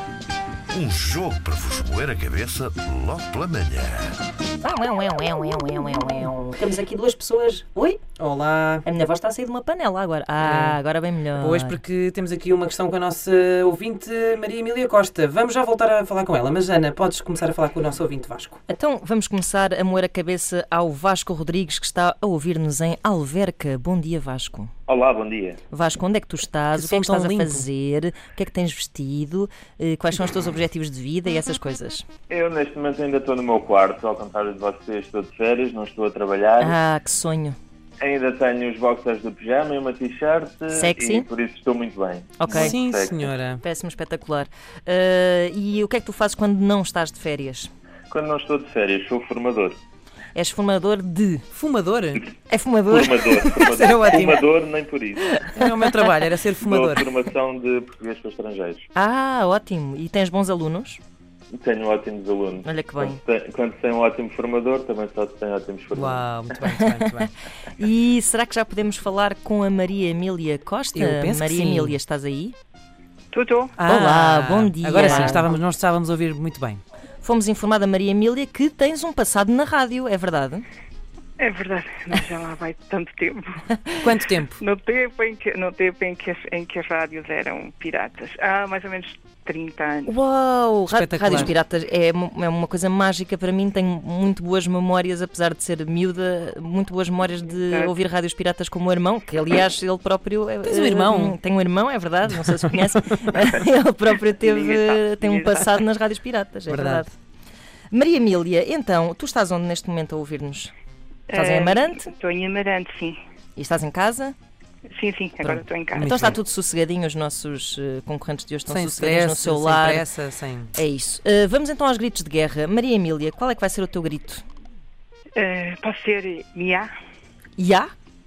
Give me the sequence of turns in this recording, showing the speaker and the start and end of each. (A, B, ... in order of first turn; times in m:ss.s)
0:00.7-0:04.2 A
0:04.6-0:08.0 B
0:08.2-0:08.8 C
0:08.8-0:11.8 B
0:10.4-0:10.8 C
0:11.4-0:18.6 C
0:18.7-0:24.7 B
0:24.9-0:25.6 D
0:25.7-0:32.0 B
0:26.7-0:27.6 C
0:32.3-0:36.8 D
0:36.6-0:37.6 B
0:38.0-0:43.3 D
0:40.7-0:41.3 B
0:42.4-0:42.7 B
0:42.5-0:43.6 C
0:43.6-0:47.7 B
0:48.1-0:49.8 D
0:50.3-0:51.4 B
0:51.5-0:52.3 C
0:52.5-0:54.4 B
0:52.9-0:55.4 D
0:53.8-0:54.1 C
0:55.3-0:55.7 B
0:55.5-0:57.0 C
0:56.6-0:58.8 D
0:58.9-1:01.0 B
1:01.5-1:06.2 D
1:02.6-1:03.2 B
1:05.9-1:07.3 C
1:06.6-1:07.2 B
1:07.8-1:12.6 B
1:10.9-1:12.0 C
1:13.3-1:13.8 E
1:13.8-1:16.8 C
1:13.8-1:15.5 B
1:17.2-1:20.6 B
1:21.4-1:23.7 E
1:24.0-1:24.6 C
1:24.6-1:30.1 E
1:30.0-1:47.1 B
1:30.9-1:31.5 C
1:37.6-1:37.9 E
1:40.6-1:41.4 C
1:44.4-1:45.7 E
1:46.7-1:47.0 C
1:47.9-1:50.7 B
1:51.3-1:53.2 E
1:51.3-1:52.1 B
1:53.6-1:54.3 B
1:54.9-1:56.1 E
1:55.4-2:00.1 B
1:56.0-1:56.4 C
1:58.7-2:00.7 C
2:00.7-2:04.4 B
2:05.4-2:06.9 E
2:07.6-2:07.9 B